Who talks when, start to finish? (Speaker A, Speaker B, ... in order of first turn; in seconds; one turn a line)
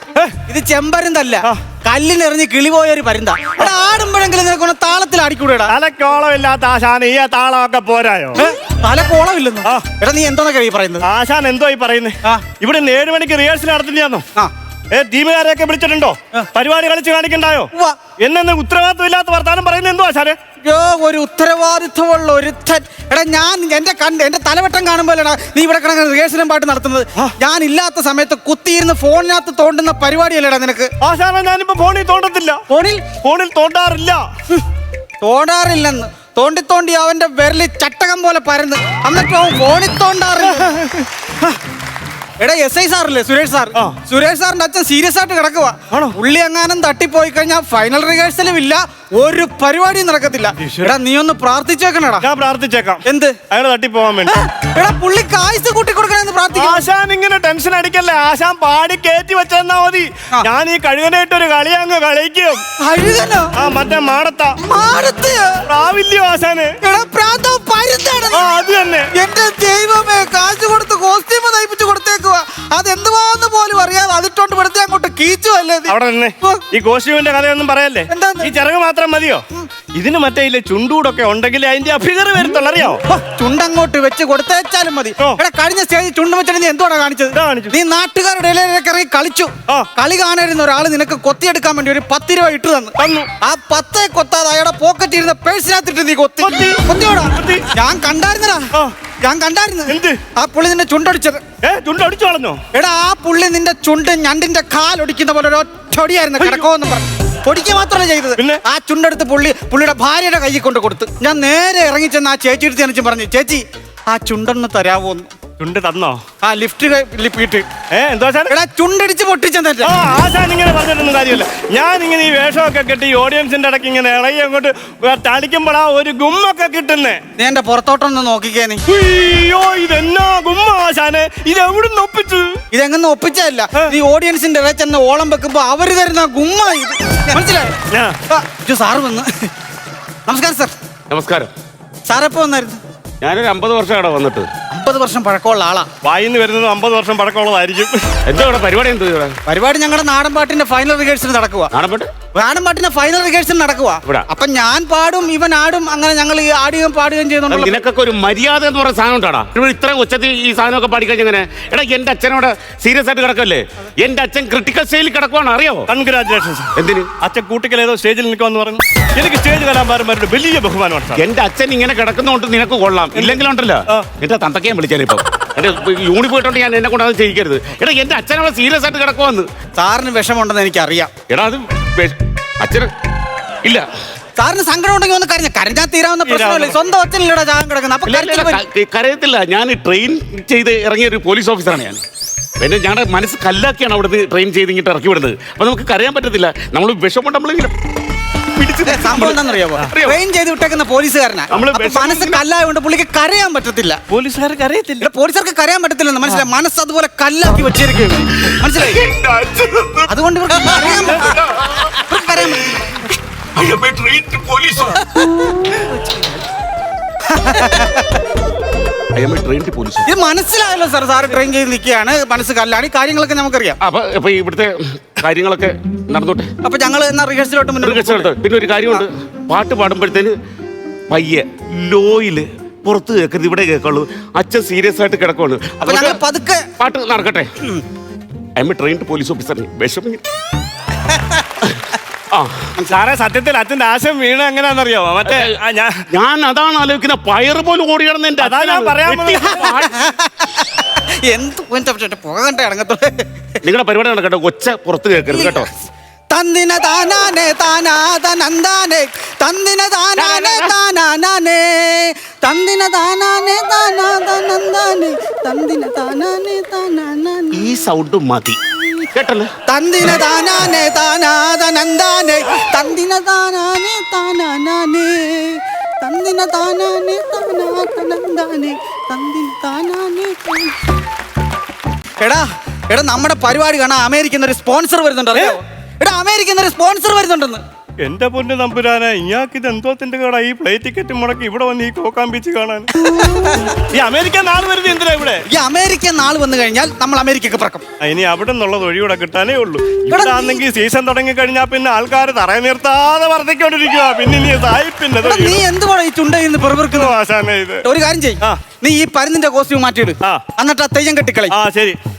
Speaker A: 0.5-5.7
Speaker B: 5.7-8.4
Speaker A: 8.4-11.0
Speaker B: 11.0-14.2
Speaker B: 14.9-17.7
Speaker B: 18.2-20.4
Speaker A: 20.6-30.9
Speaker B: 31.0-32.6
Speaker A: 32.7-33.0
Speaker B: 33.2-34.2
Speaker A: 35.2-40.6
Speaker B: 40.4-41.1
Speaker A: 42.4-52.2
Speaker B: 45.9-46.2
Speaker B: 50.6-50.9
Speaker B: 52.2-54.3
Speaker A: 53.0-53.4
Speaker A: 54.3-56.8
Speaker B: 56.5-62.6
Speaker A: 62.8-63.5
Speaker B: 63.6-64.6
Speaker A: 64.6-65.6
Speaker B: 65.7-66.7
Speaker A: 66.8-68.5
Speaker B: 68.3-69.1
Speaker A: 69.1-76.6
Speaker B: 75.9-79.4
Speaker A: 78.1-78.5
Speaker B: 79.9-83.0
Speaker A: 83.1-98.7
Speaker B: 87.3-87.7
Speaker B: 93.0-93.3
Speaker B: 96.4-97.7
Speaker A: 99.2-101.4
Speaker B: 99.9-100.2
Speaker B: 101.6-102.6
Speaker A: 102.7-115.3
Speaker B: 106.4-106.7
Speaker B: 115.6-116.2
Speaker A: 116.4-117.7
Speaker B: 117.9-118.5
Speaker A: 118.5-119.9
Speaker B: 119.8-127.2
Speaker A: 127.4-128.8
Speaker B: 128.9-132.6
Speaker A: 132.7-137.7
Speaker A: 138.3-139.5
Speaker A: 140.3-140.7
Speaker C: 141.1-141.5
Speaker A: 142.1-142.8
Speaker C: 143.2-144.5
Speaker A: 144.7-145.9
Speaker B: 146.0-148.0
Speaker C: 148.2-149.3
Speaker A: 149.4-151.7
Speaker C: 151.7-152.1
Speaker A: 152.4-157.8
Speaker C: 157.5-165.9
Speaker B: 165.9-171.2
Speaker C: 166.7-167.1
Speaker C: 171.2-179.5
Speaker B: 173.1-174.1
Speaker A: 179.8-181.1
Speaker C: 181.3-182.9
Speaker A: 184.4-188.6
Speaker B: 186.3-186.8
Speaker C: 188.1-192.0
Speaker C: 192.6-197.7
Speaker C: 198.6-200.2
Speaker A: 198.8-204.0
Speaker C: 201.5-202.4
Speaker B: 204.1-205.1
Speaker A: 205.0-209.0
Speaker C: 208.6-213.0
Speaker A: 210.1-212.8
Speaker C: 213.5-215.0
Speaker A: 215.1-215.5
Speaker A: 217.3-218.2
Speaker C: 219.1-220.1
Speaker A: 220.1-223.8
Speaker C: 223.8-226.5
Speaker A: 226.6-228.3
Speaker C: 227.8-230.3
Speaker C: 231.1-236.2
Speaker A: 235.8-236.6
Speaker C: 236.8-237.5
Speaker C: 238.6-240.2
Speaker A: 241.1-241.6
Speaker C: 242.3-242.7
Speaker B: 242.8-246.0
Speaker C: 245.2-245.5
Speaker C: 246.1-249.9
Speaker B: 248.4-249.4
Speaker A: 249.3-253.2
Speaker C: 253.6-255.7
Speaker A: 255.3-255.7
Speaker A: 256.3-267.6
Speaker C: 260.2-260.7
Speaker C: 267.5-268.6
Speaker C: 269.1-269.5
Speaker A: 269.7-280.7
Speaker A: 282.2-287.6
Speaker B: 288.0-292.9
Speaker A: 293.0-293.8
Speaker B: 293.9-295.4
Speaker A: 295.5-297.8
Speaker B: 298.0-305.6
Speaker A: 300.1-300.6
Speaker A: 305.2-307.1
Speaker B: 306.9-307.8
Speaker A: 307.8-311.5
Speaker B: 311.5-312.0